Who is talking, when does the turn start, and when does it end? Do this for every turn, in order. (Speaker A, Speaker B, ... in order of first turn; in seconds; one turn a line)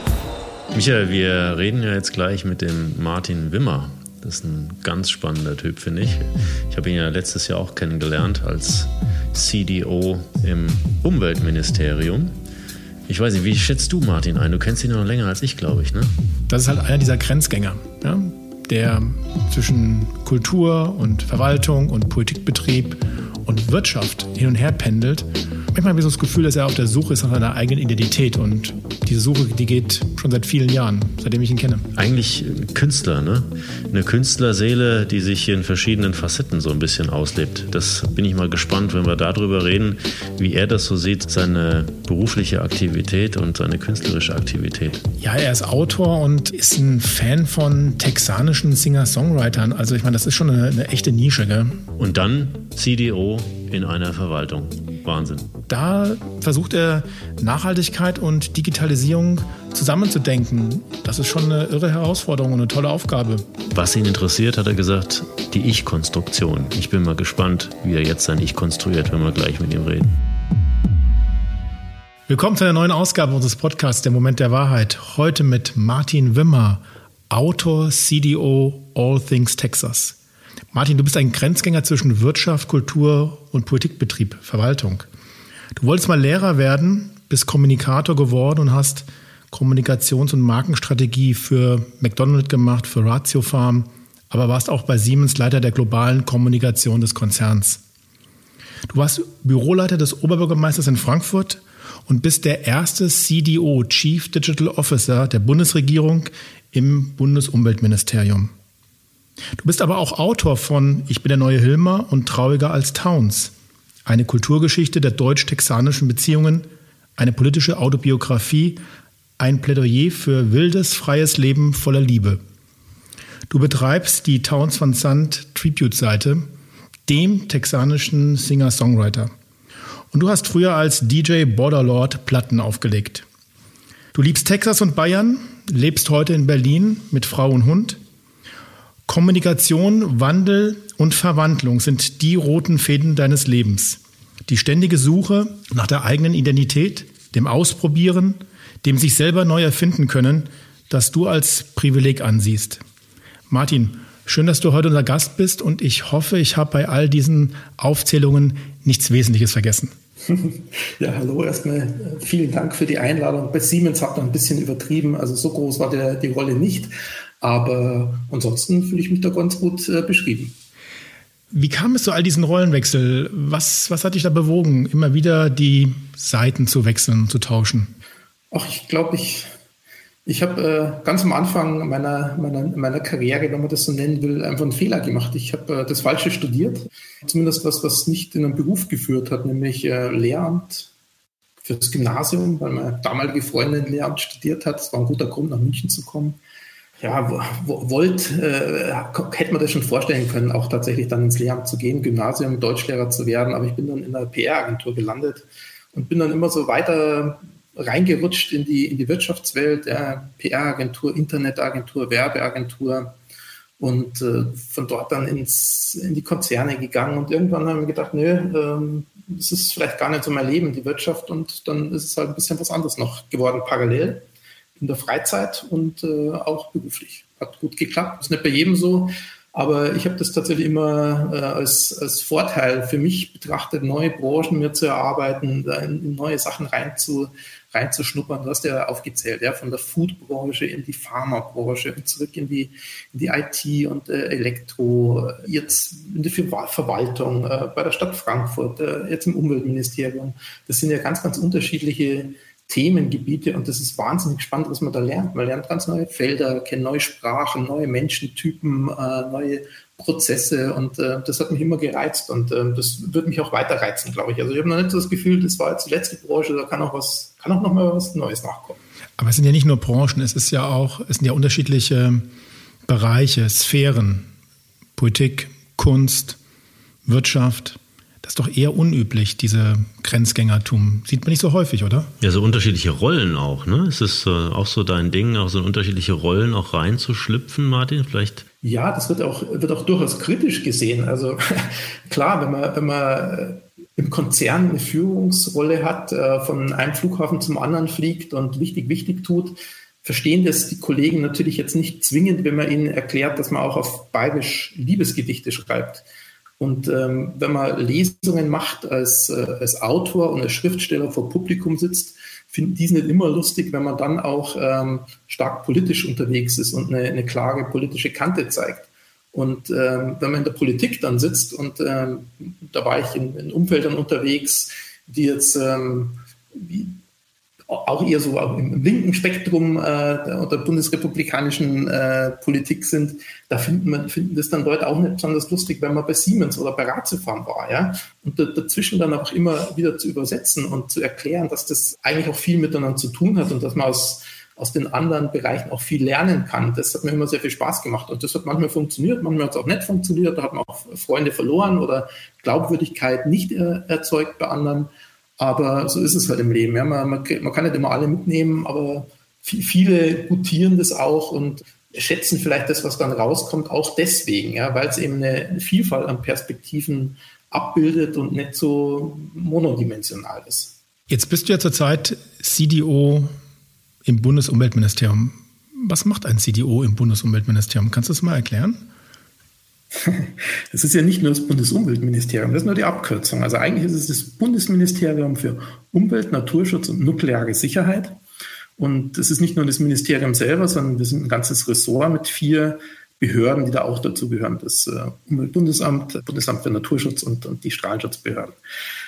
Speaker A: 0.7-12.3
Speaker A: 13.1-16.1
Speaker B: 16.5-31.9
Speaker A: 31.9-45.0
Speaker B: 45.2-51.8
Speaker A: 52.0-55.5
Speaker B: 55.7-63.5
Speaker A: 63.7-70.2
Speaker B: 72.3-80.2
Speaker B: 80.7-85.1
Speaker B: 85.8-97.8
Speaker B: 98.9-108.5
Speaker B: 109.6-113.5
Speaker B: 114.0-118.8
Speaker B: 119.4-122.4
Speaker B: 123.5-126.5
Speaker B: 127.1-129.3
Speaker B: 130.1-133.2
Speaker B: 134.1-138.0
Speaker B: 139.1-152.8
Speaker B: 153.5-159.9
Speaker C: 160.2-170.5
Speaker B: 171.5-177.9
Speaker C: 178.5-179.5
Speaker C: 180.2-190.9
Speaker C: 191.6-196.4
Speaker C: 197.0-213.1
Speaker C: 213.8-224.2
Speaker C: 224.8-268.8
Speaker B: 269.2-272.3
Speaker B: 272.9-274.3
Speaker B: 275.0-276.4
Speaker B: 277.0-282.1
Speaker A: 282.2-288.4
Speaker C: 288.6-306.0
Speaker C: 306.6-327.0
Speaker C: 327.7-370.7
Speaker B: 371.1-373.3
Speaker B: 374.0-378.8
Speaker C: 379.9-388.2
Speaker C: 388.8-398.6